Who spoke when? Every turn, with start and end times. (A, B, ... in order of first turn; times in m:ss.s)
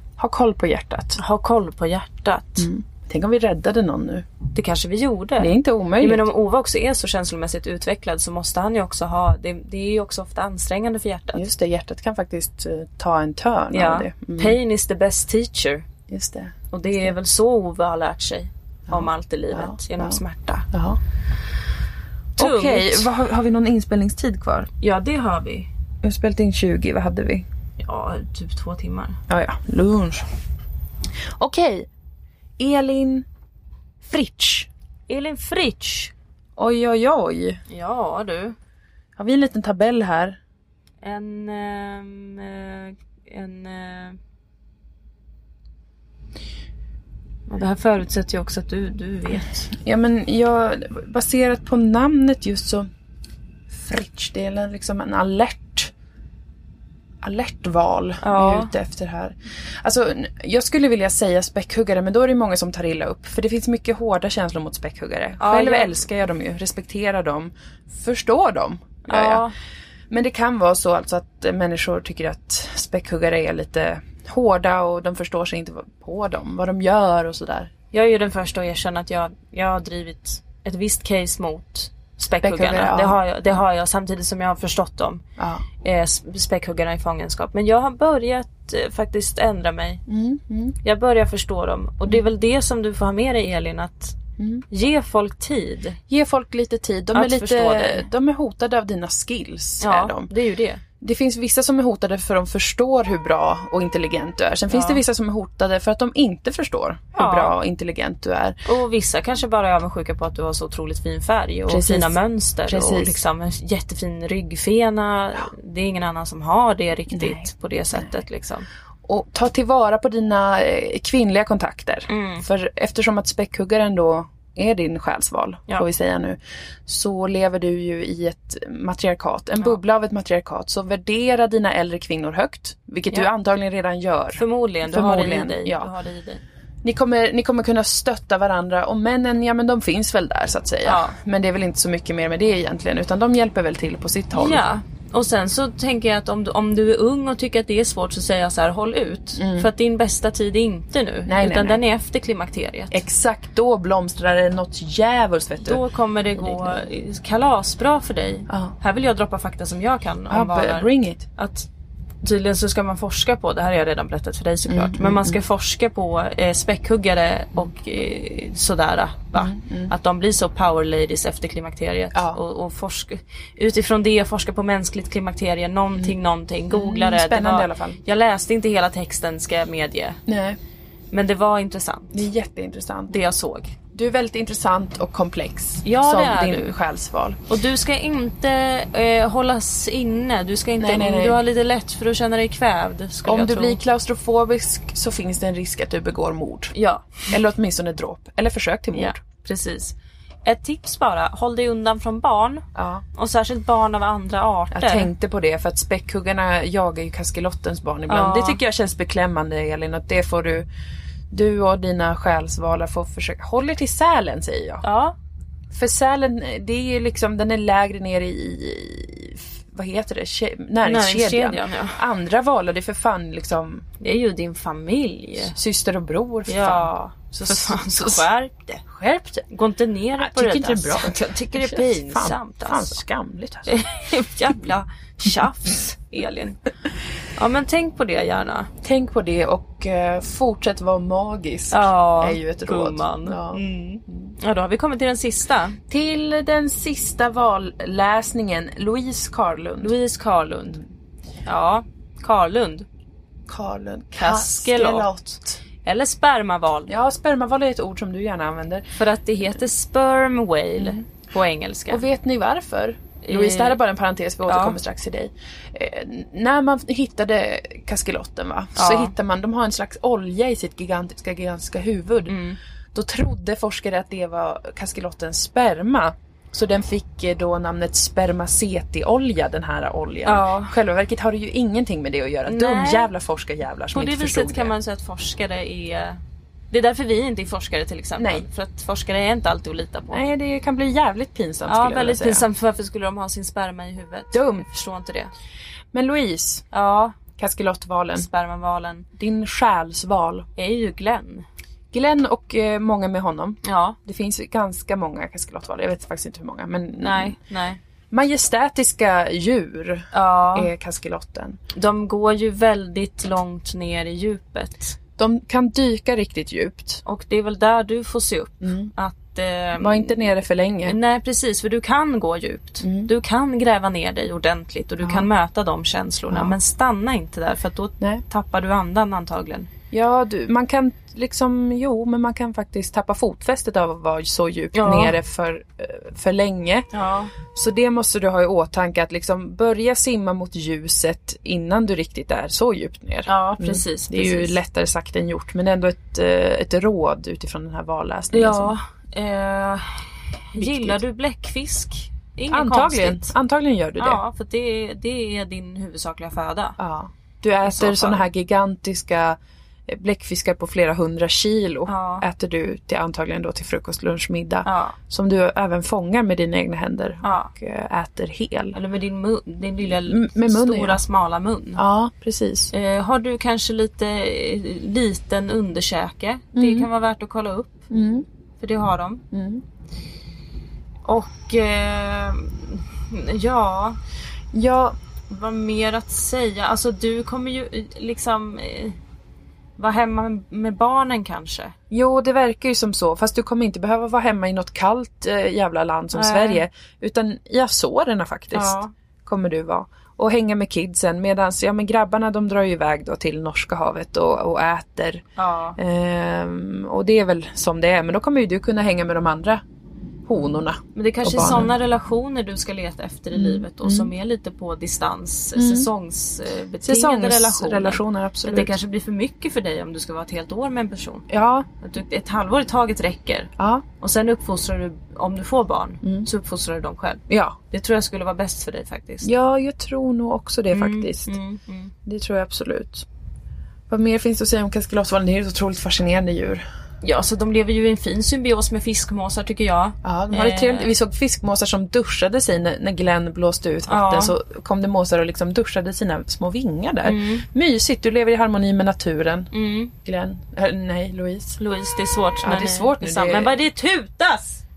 0:00.2-0:01.2 A
0:01.2-0:02.7 B
0:02.6-0:04.3 A
0:04.5-0:11.4 B
0:05.4-0:06.3 A
0:11.3-0:14.6 A
0:13.7-0:15.9 B
0:16.1-0:17.1 A
0:16.7-0:20.7 B
0:18.9-0:20.2 A
0:20.7-0:21.0 A
0:22.4-0:23.1 B
0:22.4-0:24.7 A
0:24.8-0:25.7 B
0:26.0-0:27.4 A
0:27.8-0:29.2 B
0:29.3-0:30.2 A
0:31.4-0:31.9 A
0:32.6-0:33.2 A
0:34.0-0:34.7 A
0:35.1-0:36.1 B
0:36.6-0:37.6 A
0:37.7-0:38.6 B
0:39.2-0:40.4 A
0:41.0-0:44.2 B
0:47.5-0:49.7 B
0:49.7-0:52.9 A
0:53.7-0:55.9 A
0:57.2-1:09.5 A
0:58.2-0:58.7 B
1:05.4-1:06.0 B
1:09.1-1:09.5 B
1:10.1-1:17.7 A
1:17.9-1:25.2 B
1:22.4-1:23.2 A
1:25.4-1:25.6 A
1:25.8-1:30.0 B
1:30.1-1:30.8 A
1:30.8-1:34.2 B
1:34.4-1:34.6 A
1:34.7-1:36.0 B
1:36.1-1:40.3 A
1:37.1-1:38.1 B
1:39.8-1:40.8 B
1:41.0-1:48.6 A
1:44.7-1:45.0 B
1:47.2-1:47.6 B
1:48.6-1:58.7 B
1:51.7-1:53.2 A
1:57.1-1:58.0 A
1:59.0-2:15.9 A
2:02.1-2:02.4 B
2:14.4-2:16.4 B
2:16.8-2:24.6 A
2:20.8-2:21.2 B
2:24.3-2:33.0 B
2:29.4-2:29.7 A
2:31.3-2:31.8 A
2:32.9-2:35.8 A
2:35.6-2:41.7 B
2:36.4-2:36.8 A
2:38.5-2:38.7 A
2:40.3-2:41.2 A
2:42.2-3:00.2 B
2:44.7-2:45.4 A
2:49.3-2:49.9 A
2:52.1-2:52.4 A
2:56.7-2:58.0 A
3:00.3-3:00.6 A
3:01.1-3:02.2 B
3:02.1-3:03.2 A
3:03.1-3:03.8 B
3:03.9-3:07.4 A
3:05.8-3:06.7 B
3:07.5-3:13.8 B
3:10.8-3:11.4 A
3:13.2-3:16.7 A
3:16.7-3:17.3 B
3:17.3-3:19.2 A
3:18.9-3:25.1 B
3:22.7-3:23.0 A
3:24.7-3:30.7 A
3:28.1-3:28.6 B
3:31.3-3:34.8 A
3:34.8-3:35.2 B
3:35.7-3:43.9 A
3:40.8-3:42.0 B
3:44.0-3:45.6 B
3:45.4-3:48.2 A
3:46.5-3:48.8 B
3:48.8-3:49.4 A
3:49.5-3:53.0 B
3:50.2-3:53.8 A
3:53.7-3:56.6 B
3:57.4-3:58.7 B
3:58.8-4:04.3 A
4:01.7-4:05.8 B
4:05.9-4:09.9 A
4:09.8-4:10.8 B
4:11.4-4:12.8 B
4:13.5-4:15.6 A
4:14.2-4:15.1 B
4:15.8-4:16.9 B
4:16.9-4:18.8 A
4:18.9-4:22.0 B
4:20.8-4:21.0 A
4:21.9-4:32.4 A
4:23.2-4:23.8 B
4:24.5-4:24.8 B
4:28.8-4:29.1 B
4:32.3-4:32.6 B
4:32.9-4:44.7 A
4:40.2-4:40.7 B
4:42.4-4:43.1 B
4:43.9-4:46.2 B
4:46.7-4:50.2 B
4:48.2-4:48.4 A
4:50.1-4:52.4 A
4:51.7-4:55.3 B
4:54.3-4:54.7 A
4:55.9-4:56.6 A
4:56.7-4:57.2 B
4:57.4-4:58.3 A
4:58.1-4:59.0 B
4:59.2-5:00.4 A
5:00.6-5:01.4 B
5:01.9-5:07.4 A
5:03.6-5:04.0 B
5:07.0-5:07.8 B
5:08.1-5:11.6 A
5:10.1-5:10.7 B
5:11.7-5:15.0 B
5:15.2-5:17.0 A
5:17.0-5:20.3 B
5:18.6-5:18.9 A
5:19.7-5:21.0 A
5:20.8-5:29.7 B
5:22.8-5:23.1 A
5:25.0-5:25.3 A
5:26.3-5:26.6 A
5:29.9-5:48.8 A
5:34.7-5:35.2 B
5:36.9-5:37.3 B
5:43.3-5:44.6 B
5:48.3-5:53.3 B
5:50.6-5:51.0 A
5:52.5-5:54.2 A
5:54.0-5:56.8 B
5:56.8-6:08.8 A
5:57.6-5:58.2 B
6:01.9-6:02.2 B
6:04.6-6:05.0 B
6:07.2-6:07.5 B
6:08.7-6:11.8 B
6:09.8-6:11.0 A
6:11.8-6:12.7 A
6:12.7-6:17.9 B
6:16.6-6:16.9 A
6:17.9-6:18.2 A
6:18.6-6:19.2 B
6:19.3-6:19.6 A
6:21.0-6:24.0 B
6:24.5-6:25.0 A
6:25.3-6:29.0 B
6:29.8-6:31.7 B
6:31.9-6:45.2 A
6:36.1-6:36.6 B
6:38.5-6:38.9 B
6:45.4-6:45.8 B
6:45.8-6:49.6 A
6:50.2-6:51.7 A
6:50.9-7:01.2 B
6:53.3-6:54.1 A
6:55.5-6:55.9 A
6:56.8-6:58.8 A
7:01.3-7:01.7 A
7:01.8-7:09.3 B
7:03.6-7:03.8 A
7:06.0-7:06.3 A
7:07.3-7:07.6 A
7:09.2-7:11.4 A
7:10.7-7:11.9 B
7:12.0-7:13.0 A
7:13.9-7:16.6 A
7:17.0-7:20.9 B
7:20.0-7:29.5 A
7:23.9-7:24.3 B
7:27.0-7:27.4 B
7:29.5-7:29.9 B
7:30.0-7:31.6 A
7:31.6-7:34.6 B
7:32.4-7:33.6 A